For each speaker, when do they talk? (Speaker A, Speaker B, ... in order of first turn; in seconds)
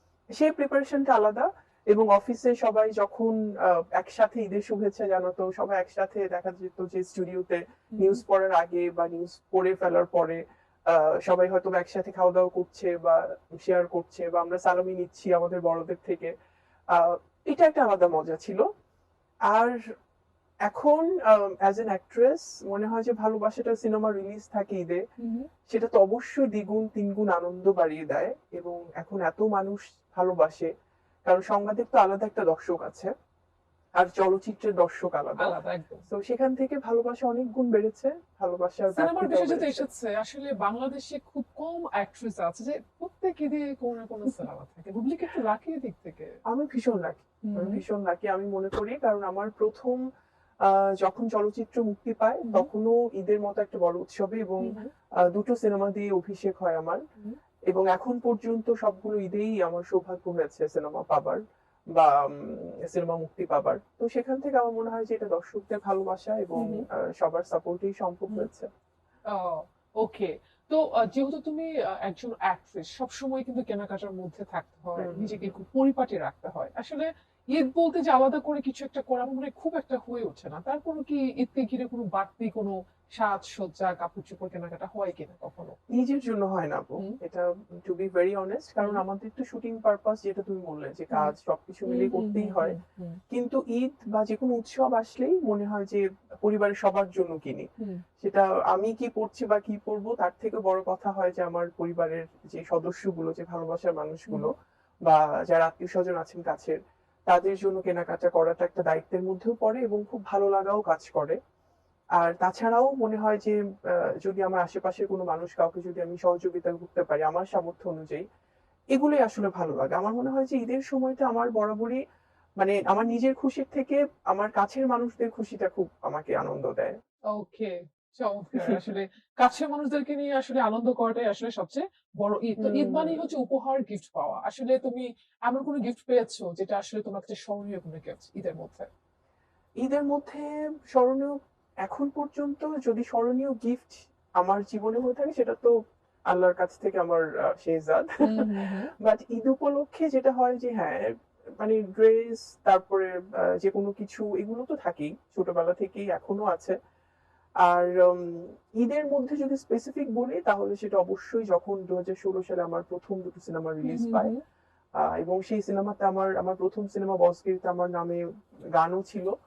Speaker A: 0.4-16.3, 16.9-18.6, 19.5-19.8, 20.7-25.0, 25.7-30.7, 31.3-33.1, 34.0-35.6, 36.1-39.9, 46.5-50.0, 50.6-54.8, 55.3-57.0, 57.7-61.4, 61.9-68.7, 75.0-75.5, 85.9-92.8, 93.3-97.7, 98.2-104.5, 105.1-111.4, 112.2-118.2, 118.9-122.0, 122.6-127.0, 132.6-133.2, 139.8-145.7, 146.3-148.4, 149.0-151.0, 151.6-156.8, 157.6-164.3, 165.0-168.2, 168.7-169.3
Speaker B: 25.2-25.5, 35.4-36.0, 38.9-46.3, 47.5-47.8, 66.6-66.8, 69.3-85.8, 91.9-93.2, 127.3-138.9, 148.2-148.9, 163.9-164.4